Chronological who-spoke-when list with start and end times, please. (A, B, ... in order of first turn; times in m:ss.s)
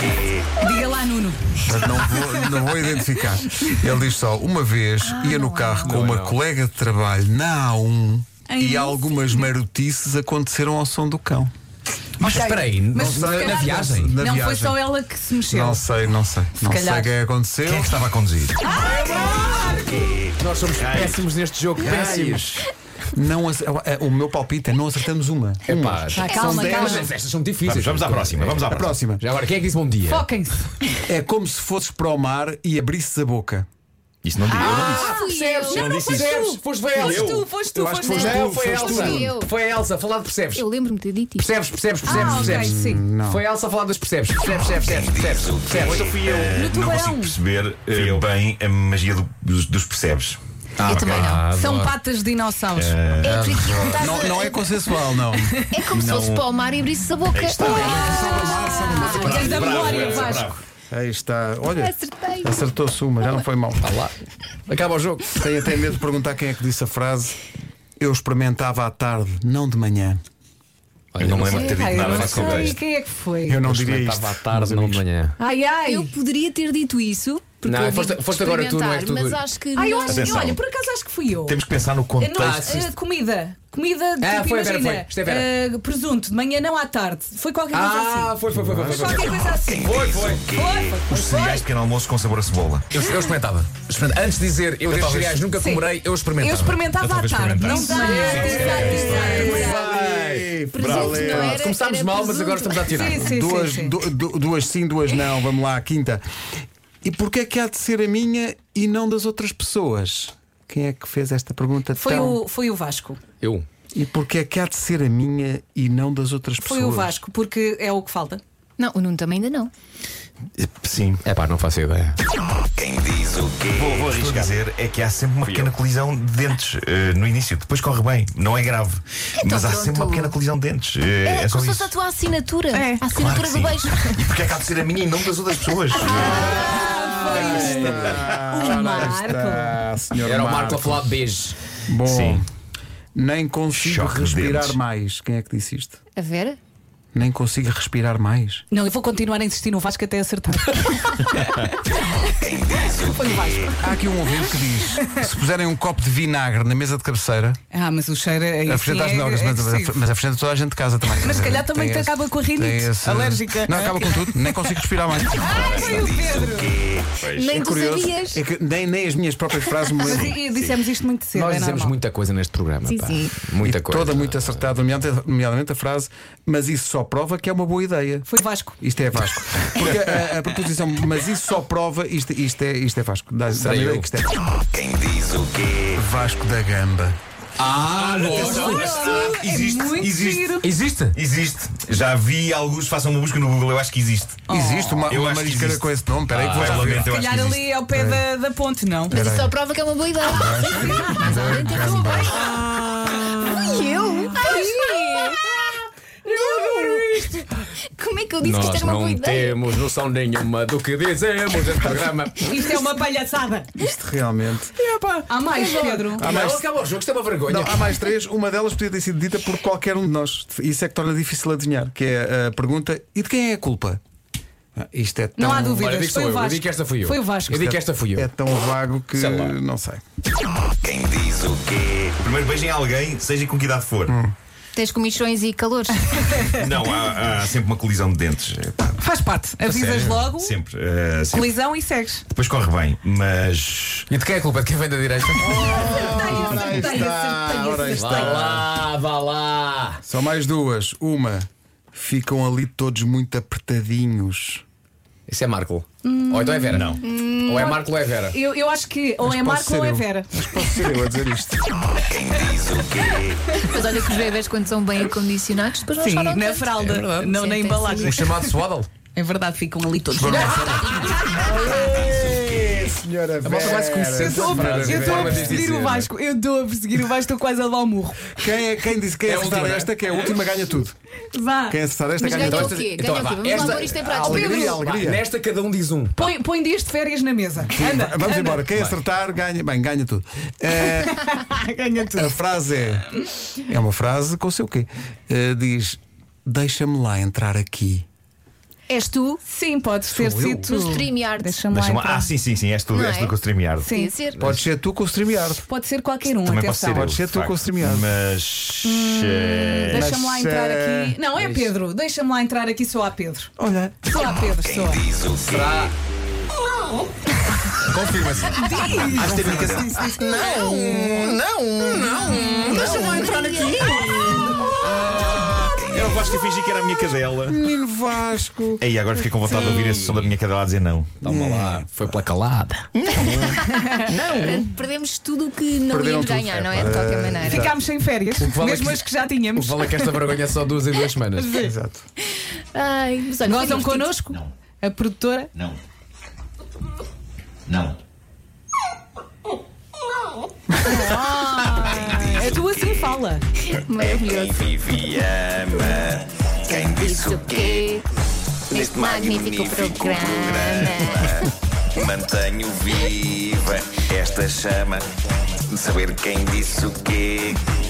0:00.6-0:02.7 A
0:01.6-0:11.5 B
0:05.0-0:06.0 C
0:05.8-0:06.4 D
0:08.5-0:09.5 A
0:12.2-0:14.2 D
0:12.2-0:15.8 A
0:12.9-0:14.9 B
0:15.4-0:18.0 B
0:16.6-0:17.1 A
0:17.6-0:18.8 E
0:18.6-0:20.2 A
0:18.7-0:19.7 D
0:19.6-0:21.2 E
0:20.4-0:22.6 D
0:21.8-0:27.1 B
0:25.6-0:30.3 D
0:26.1-0:27.1 A
0:26.3-0:27.0 C
0:27.6-0:28.9 E
0:28.7-0:29.2 B
0:30.1-0:31.0 A
0:31.1-0:33.6 B
0:34.2-0:35.0 E
0:34.5-0:38.4 A
0:34.5-0:37.3 D
0:34.6-0:35.9 C
0:35.7-0:36.4 E
0:36.9-0:37.5 E
0:37.7-0:39.3 B
0:38.1-0:40.6 D
0:38.1-0:39.5 C
0:40.5-0:41.5 C
0:41.4-0:46.4 D
0:42.0-0:43.0 A
0:42.0-0:43.4 B
0:45.7-0:51.4 E
0:46.5-0:47.4 A
0:50.8-0:52.0 D
0:50.8-0:51.4 C
0:51.5-0:53.0 A
0:52.7-0:53.4 E
0:53.2-0:54.6 C
0:53.2-0:54.1 D
0:53.6-0:55.6 B
0:55.3-0:55.6 A
0:55.7-0:59.3 C
0:55.9-0:56.5 E
0:57.3-0:58.0 E
0:57.6-1:00.6 A
0:57.6-0:59.8 B
0:59.1-1:00.6 E
1:00.9-1:03.8 B
1:01.7-1:02.7 C
1:03.8-1:04.1 D
1:04.7-1:05.3 D
1:05.3-1:07.4 B
1:08.0-1:10.2 B
1:11.1-1:12.8 D
1:11.2-1:12.8 E
1:11.5-1:11.9 C
1:11.6-1:13.6 A
1:13.4-1:15.0 B
1:13.6-1:14.3 E
1:13.7-1:15.4 D
1:15.4-1:16.1 A
1:15.8-1:20.4 C
1:17.6-1:19.4 D
1:19.7-1:21.6 A
1:20.0-1:20.6 E
1:21.4-1:22.8 E
1:22.2-1:28.4 A
1:22.4-1:22.9 D
1:24.2-1:25.5 D
1:27.7-1:30.3 D
1:28.5-1:29.2 B
1:28.9-1:29.9 A
1:29.8-1:30.5 E
1:30.4-1:31.6 A
1:31.1-1:32.9 E
1:32.9-1:36.8 D
1:34.9-1:35.4 B
1:35.5-1:39.8 A
1:37.0-1:39.5 E
1:37.7-1:38.8 C
1:37.8-1:40.5 D
1:38.4-1:41.6 B
1:39.4-1:39.8 C
1:40.7-1:43.0 C
1:40.8-1:41.7 E
1:41.1-1:43.3 D
1:42.9-1:44.0 A
1:43.1-1:46.2 B
1:47.0-1:52.4 B
1:51.9-1:53.2 A
1:53.4-1:53.6 D
1:53.9-1:57.2 B
1:56.6-1:58.4 A
1:58.8-1:59.7 C
2:00.6-2:01.2 E
2:01.2-2:02.2 D
2:03.7-2:11.9 E
2:05.4-2:05.7 D
2:09.4-2:10.4 C
2:11.2-2:14.4 C
2:12.7-2:13.1 A
2:13.1-2:16.8 E
2:15.9-2:19.8 A
2:16.1-2:16.4 C
2:16.7-2:21.1 B
2:17.2-2:17.9 D
2:20.2-2:21.6 D
2:21.9-2:22.4 B
2:22.1-2:22.4 E
2:23.1-2:26.0 B
2:23.7-2:24.8 E
2:26.1-2:26.6 C
2:27.1-2:28.6 B
2:28.7-2:34.4 A
2:33.8-2:37.6 B
2:37.7-2:40.0 A
2:38.6-2:45.6 B
2:41.2-2:44.7 A
2:45.4-2:46.8 A
2:45.5-2:47.6 E
2:47.3-2:48.4 C
2:47.5-2:50.4 B
2:50.0-2:52.0 A
2:51.3-2:54.4 D
2:52.8-2:53.3 C
2:53.6-2:58.3 B
2:58.2-2:58.8 A
2:58.8-3:04.4 B
3:03.5-3:04.1 D
3:05.9-3:07.2 B
3:07.6-3:09.0 D
3:07.8-3:10.5 E
3:08.3-3:10.6 A
3:08.8-3:09.2 C
3:10.6-3:11.2 D
3:11.1-3:14.4 E
3:14.5-3:15.0 A
3:14.5-3:17.1 B
3:15.1-3:15.9 E
3:16.3-3:17.0 D
3:16.4-3:17.7 E
3:17.0-3:19.2 A
3:17.9-3:18.2 B
3:19.1-3:25.6 C
3:19.1-3:19.5 B
3:20.3-3:22.5 B
3:20.7-3:21.1 A
3:24.3-3:25.4 A
3:26.2-3:27.5 A
3:26.2-3:29.6 C
3:28.4-3:32.8 D
3:32.4-3:33.7 A
3:33.8-3:36.7 B
3:35.2-3:36.2 A
3:35.6-3:35.9 C
3:36.1-3:37.9 D
3:37.4-3:44.0 B
3:44.8-3:45.9 B
3:45.4-3:47.6 A
3:45.8-3:48.3 D
3:47.5-3:50.0 B
3:49.1-3:49.6 D
3:52.2-3:54.1 E
3:54.1-3:54.3 B
3:54.7-3:56.4 C
3:56.1-3:56.5 A
3:56.5-3:59.0 E
3:59.0-4:00.6 A
3:59.6-4:00.3 D
4:00.2-4:01.6 E
4:01.3-4:02.2 A
4:02.3-4:04.1 E
4:04.1-4:06.4 D
4:05.4-4:08.8 B
4:05.6-4:08.4 A
4:07.8-4:10.0 D
4:10.0-4:14.6 B
4:15.3-4:18.4 D
4:16.0-4:20.9 A
4:16.7-4:17.0 E
4:17.0-4:17.3 C
4:19.2-4:21.6 B
4:22.2-4:22.7 A
4:23.6-4:26.7 C
4:26.0-4:28.5 A
4:26.7-4:27.4 D
4:27.3-4:28.1 C
4:27.9-4:28.9 D
4:29.1-4:31.7 A
4:30.1-4:35.7 B
4:30.3-4:31.2 D
4:31.8-4:32.8 D
4:33.4-4:36.1 D
4:34.2-4:38.4 A
4:38.3-4:41.0 B
4:39.2-4:40.3 D
4:41.3-4:41.8 A
4:41.7-4:42.8 B
4:42.2-4:44.8 C
4:42.2-4:46.3 D
4:43.8-4:45.2 B
4:44.2-4:44.8 A
4:46.2-4:48.6 A
4:47.6-4:51.4 B
4:48.7-4:49.0 D
4:50.8-4:52.3 A
4:52.1-4:58.0 B
4:58.9-4:59.4 C
4:59.4-5:02.3 A
5:00.1-5:00.8 B
5:00.7-5:01.6 C
5:01.7-5:03.9 E
5:02.9-5:04.5 C
5:03.8-5:04.1 A
5:04.4-5:05.6 B
5:05.6-5:07.2 A
5:06.3-5:10.1 E
5:07.0-5:08.1 B
5:08.8-5:13.5 A
5:09.9-5:11.2 B
5:11.4-5:11.7 D
5:13.6-5:14.1 B
5:14.0-5:15.1 A
5:15.3-5:16.0 D
5:17.8-5:24.7 D
5:18.5-5:20.7 A
5:19.1-5:20.0 E
5:19.2-5:21.4 B
5:20.4-5:21.0 C
5:22.0-5:24.7 C
5:22.2-5:22.7 A
5:22.7-5:23.4 B
5:24.0-5:27.6 E
5:27.5-5:28.9 B
5:28.8-5:31.2 E
5:30.0-5:30.3 D
5:31.2-5:33.4 D
5:31.2-5:31.9 B
5:33.1-5:37.7 C
5:33.8-5:34.1 A
5:34.0-5:34.6 D
5:35.9-5:37.8 B
5:37.4-5:40.1 A
5:38.4-5:41.6 D
5:41.3-5:41.7 A
5:41.6-5:42.1 B
5:42.3-5:44.2 C
5:43.4-5:45.5 A
5:47.7-5:48.0 E
5:50.8-5:53.4 A
5:53.6-5:58.0 C
5:55.0-5:55.7 E
5:58.7-6:01.5 C
6:02.2-6:02.4 E
6:02.5-6:03.9 F
6:03.9-6:05.0 E
6:05.7-6:06.8 F
6:06.0-6:07.3 E